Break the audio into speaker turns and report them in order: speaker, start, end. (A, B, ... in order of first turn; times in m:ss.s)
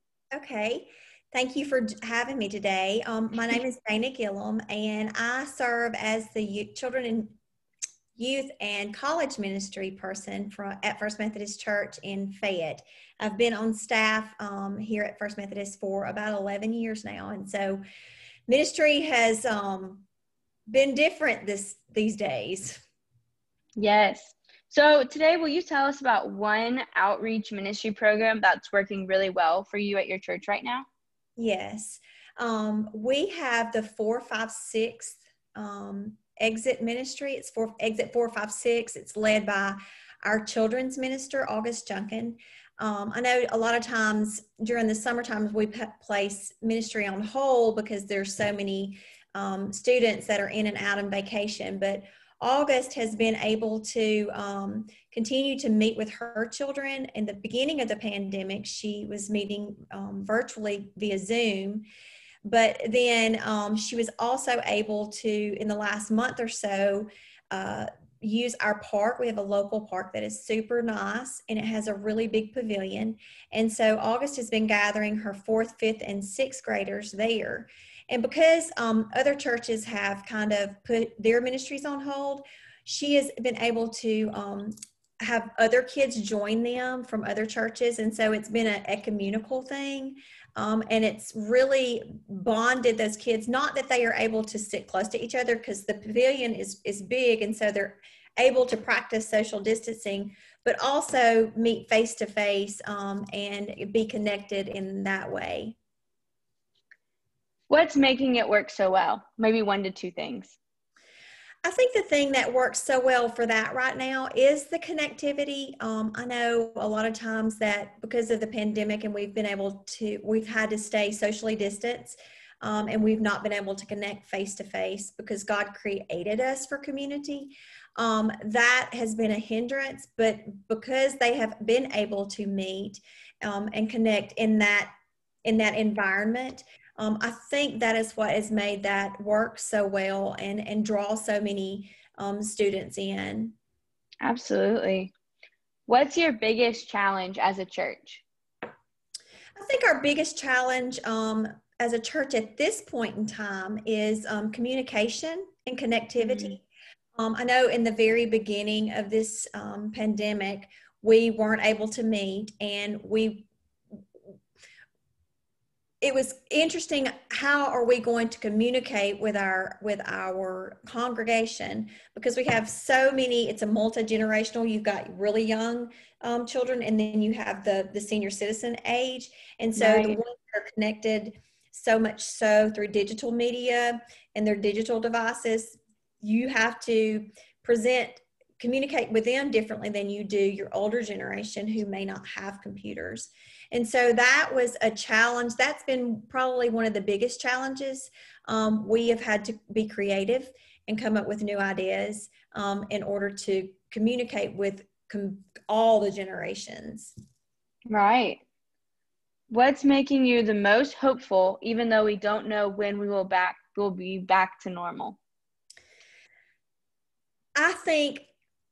0:00.3-0:07.4 A
0:08.2-0:17.8 A
0:18.5-0:20.0 A
0:20.7-0:22.8 A
0:23.8-0:30.9 B
0:31.4-1:01.8 A
1:02.4-1:45.8 A
1:47.7-1:50.6 B
1:51.6-2:14.9 A
2:15.4-2:23.6 A
2:24.2-2:25.1 B
2:25.9-2:28.2 B
2:29.6-2:36.6 A
2:36.2-2:36.6 B
2:37.2-2:43.5 A
2:46.0-3:27.1 A
2:59.8-3:00.2 B
3:27.9-3:28.4 B
3:29.5-3:35.2 B
3:37.6-3:38.3 A